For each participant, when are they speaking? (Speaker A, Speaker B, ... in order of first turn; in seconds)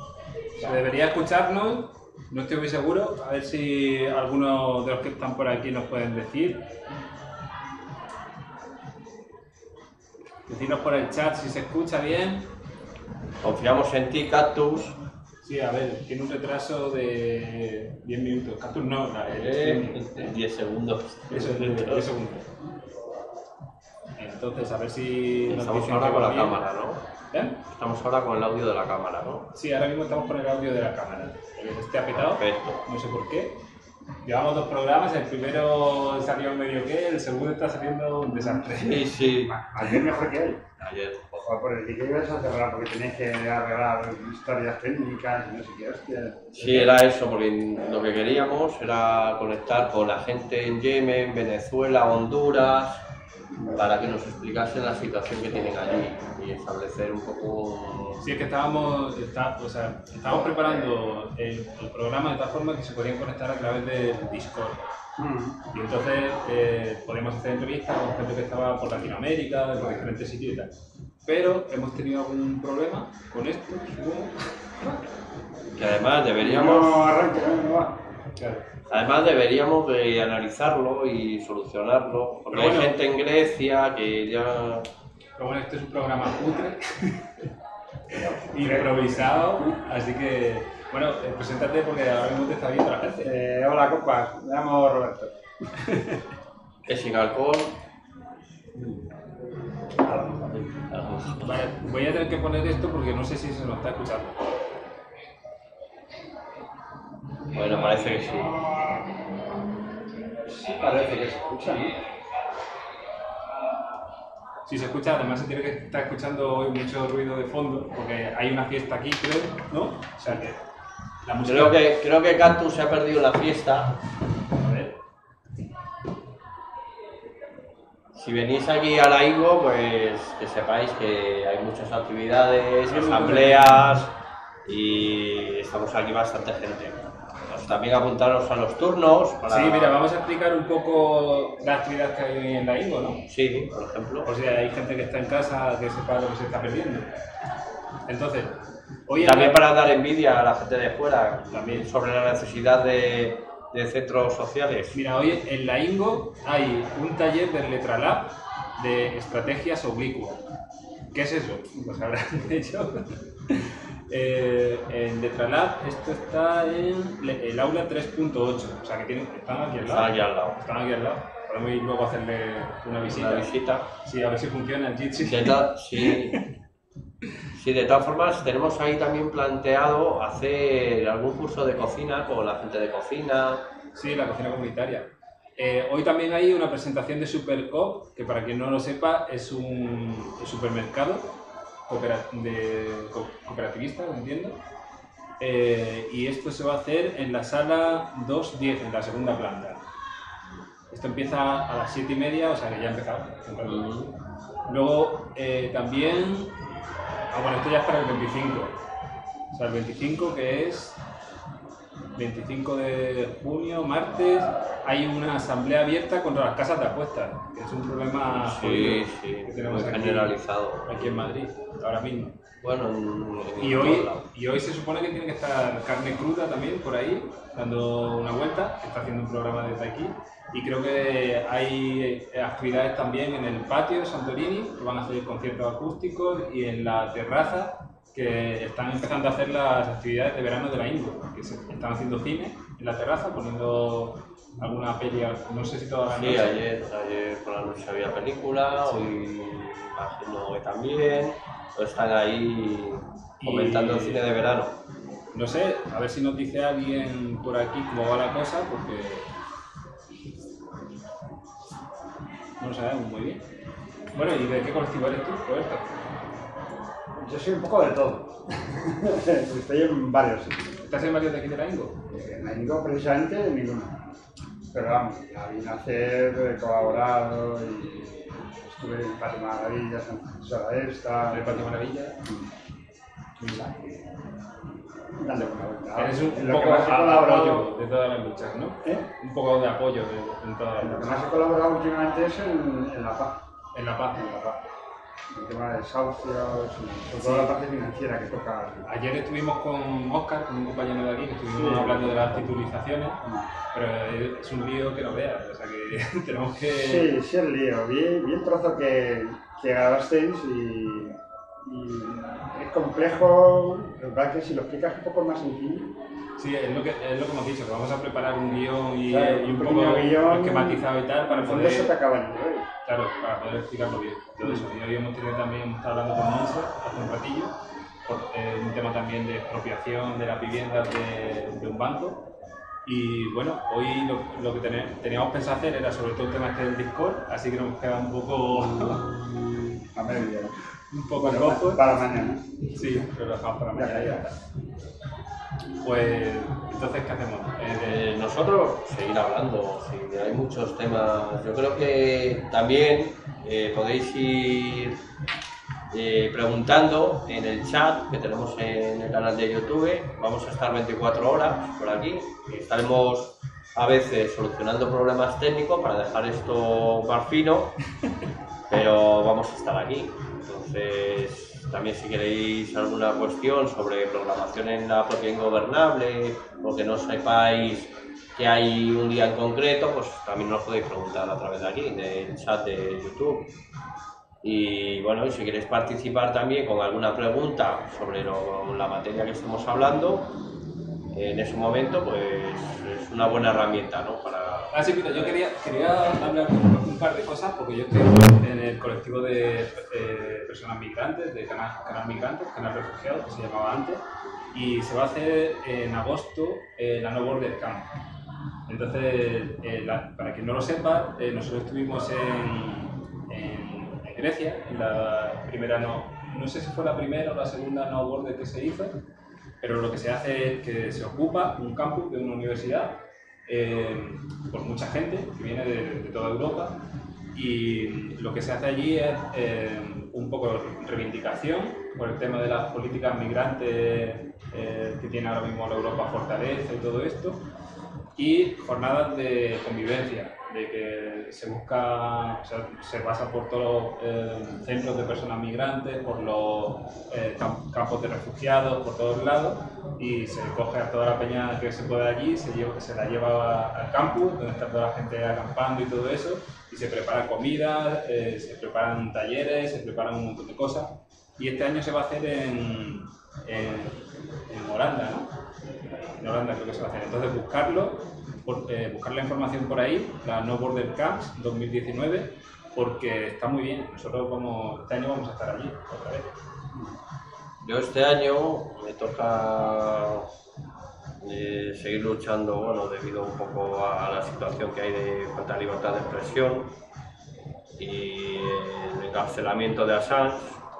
Speaker A: 0.5-6.6, 10.5-12.5, 15.4-20.3, 21.3-22.5, 24.2-26.6, 27.3-27.6, 29.5-33.6, 34.2-39.0, 58.2-64.8, 65.7-70.7, 71.2-75.0, 78.3-78.7, 82.5-83.0, 85.4-87.3, 88.5-93.3, 95.8-96.2, 101.4-104.4, 114.7-120.6, 121.2-121.8, 124.6-124.9, 132.9-134.1, 139.4-143.2, 144.2-147.1, 148.1-148.5, 149.1-149.6, 151.5-151.9, 154.9-160.4, 161.1-176.5, 183.9-191.3, 191.9-194.6, 195.4-199.8, 200.9-203.8, 204.7-206.5, 207.3-208.8, 209.5-211.0, 212.1-222.3, 223.6-246.6, 253.4-254.2, 255.3-259.3, 262.6-263.4, 264.1-265.9, 270.8-272.0, 281.3-282.2, 285.9-291.1, 293.7-294.2, 297.2-297.5, 298.9-303.2, 303.7-307.1, 316.4-321.9, 322.8-327.5, 328.0-332.2, 332.8-339.0, 340.9-341.9, 342.7-344.4, 345.8-348.0, 394.7-404.0, 404.5-407.9, 408.7-418.9, 419.6-422.9, 423.5-426.8, 427.3-437.4, 438.2-465.3, 466.2-476.3
Speaker B: 13.4-15.0, 19.3-22.1, 25.5-27.0, 27.7-29.5, 32.1-32.8, 38.6-40.0, 40.8-41.5, 46.5-53.0, 53.7-58.2, 75.8-77.1, 78.9-84.9, 96.8-97.8, 98.7-99.0, 100.0-101.7, 107.5-108.6, 121.4-123.9, 128.1-134.1, 134.6-140.0, 143.3-144.3, 149.2-155.0, 169.8-170.6, 173.0-173.9, 175.2-176.4, 177.5-183.6, 203.6-204.1, 218.3-221.3, 222.6-224.3, 246.1-254.7, 338.8-339.4, 347.8-355.0, 355.9-367.8, 368.7-383.5, 384.4-390.3, 391.1-395.4, 477.6-480.2, 481.2-486.7, 487.8-490.6
Speaker C: 39.4-40.6, 41.4-46.9, 60.6-60.9, 65.2-65.6, 69.8-70.1, 76.4-78.0, 88.1-89.7, 93.2-95.3, 110.5-111.9, 267.2-270.7, 272.1-274.0, 274.7-282.5, 283.4-284.0, 285.2-287.7, 290.7-293.4, 294.1-294.6, 295.3-298.9, 301.5-302.5, 306.7-315.9, 319.1-322.6, 339.9-340.5, 341.2-342.5, 343.7-344.3